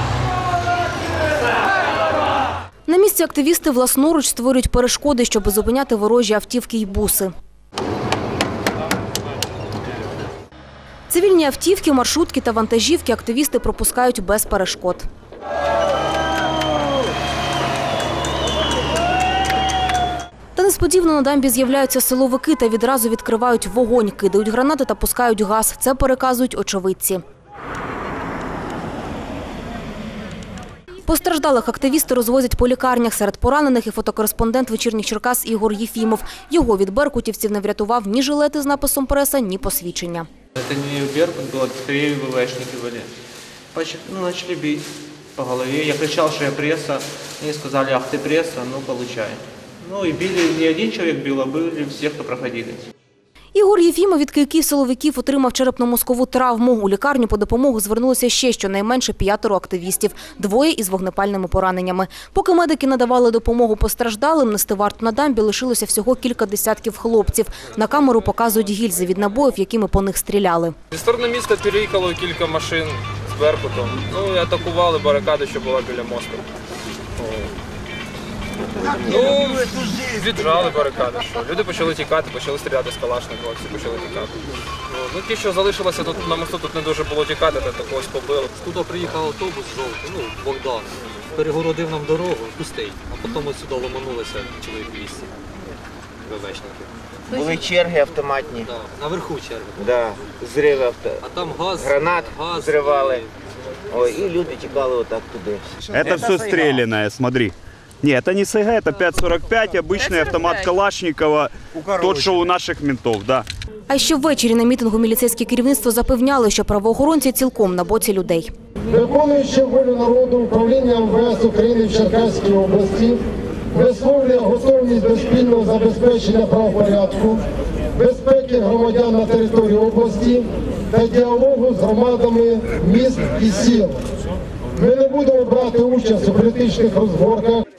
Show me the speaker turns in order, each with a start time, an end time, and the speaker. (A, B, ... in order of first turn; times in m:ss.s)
0:02.9-0:07.3 A
0:11.1-0:15.0 A
0:20.5-0:27.2 A
0:31.0-0:40.3 A
0:40.6-0:43.1 B
0:43.7-0:52.9 B
0:53.5-1:10.8 A
1:10.9-1:16.4 C
1:19.0-1:24.3 C
1:24.9-1:28.5 C
1:28.5-1:35.3 D
1:36.3-1:36.9 D
1:37.3-1:37.7 E
1:37.3-1:38.7 F
1:38.7-1:39.9 D
1:39.9-1:41.2 F
1:40.6-1:41.1 E
1:41.2-1:43.3 D
1:41.8-1:43.2 F
1:43.9-1:45.6 F
1:44.2-1:44.5 E
1:45.9-1:53.4 G
1:53.9-1:58.5 A
1:58.9-2:03.2 E
2:03.7-2:07.4 E
2:07.9-2:14.0 E
2:14.8-2:17.6 E